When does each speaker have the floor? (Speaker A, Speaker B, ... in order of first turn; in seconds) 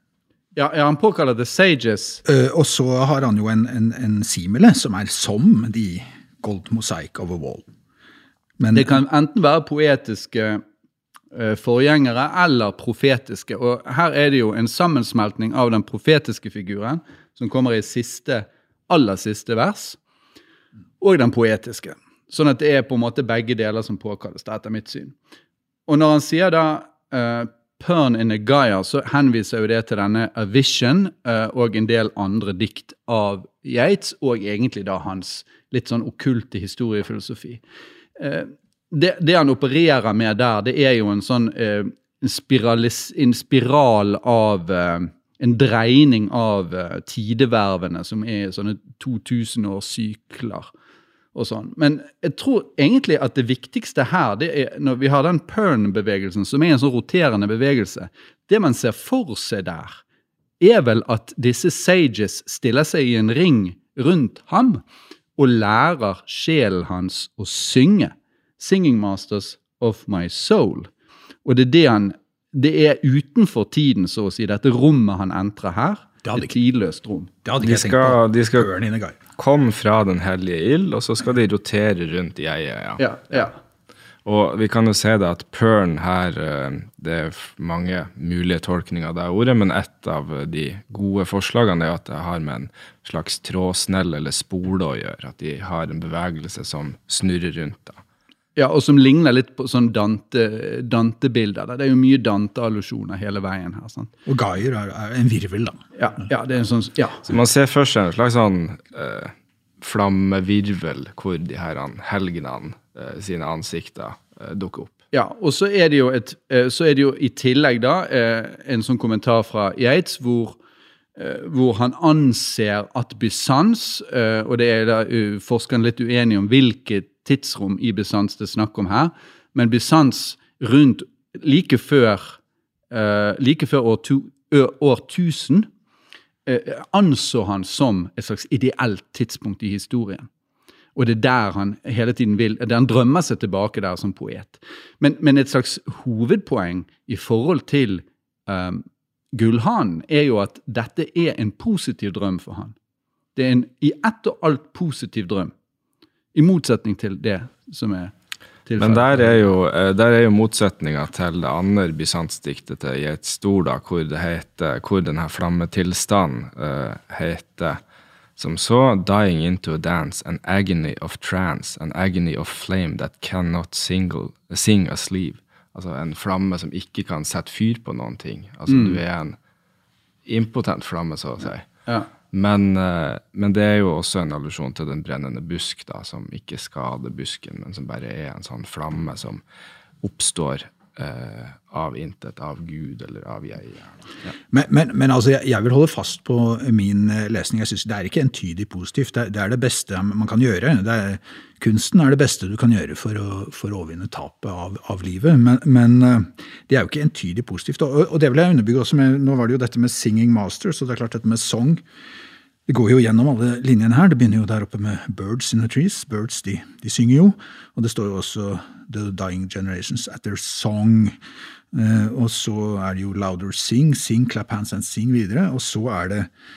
Speaker A: 0.6-2.2, 8.7-10.6, 11.3-20.0, 21.0-25.1, 25.9-37.6, 38.2-50.7, 51.3-60.0, 60.6-64.8, 65.4-70.9, 71.5-77.3, 83.0-83.6, 98.6-104.1, 106.0-107.2, 115.1-120.6, 121.2-132.4, 132.9-135.7, 136.5-140.3, 141.0-152.8, 153.3-155.5, 156.3-158.1, 158.7-159.4, 178.7-179.0
Speaker B: 2.2-7.7, 8.6-8.9, 76.2-76.5, 77.5-79.2, 104.3-105.9, 194.5-211.8, 212.7-221.2, 221.7-226.3
Speaker C: 77.6-78.7, 79.3-83.4, 84.2-98.0, 107.2-115.0, 158.8-167.8, 168.4-179.4, 180.3-181.7, 182.3-189.4, 190.0-194.0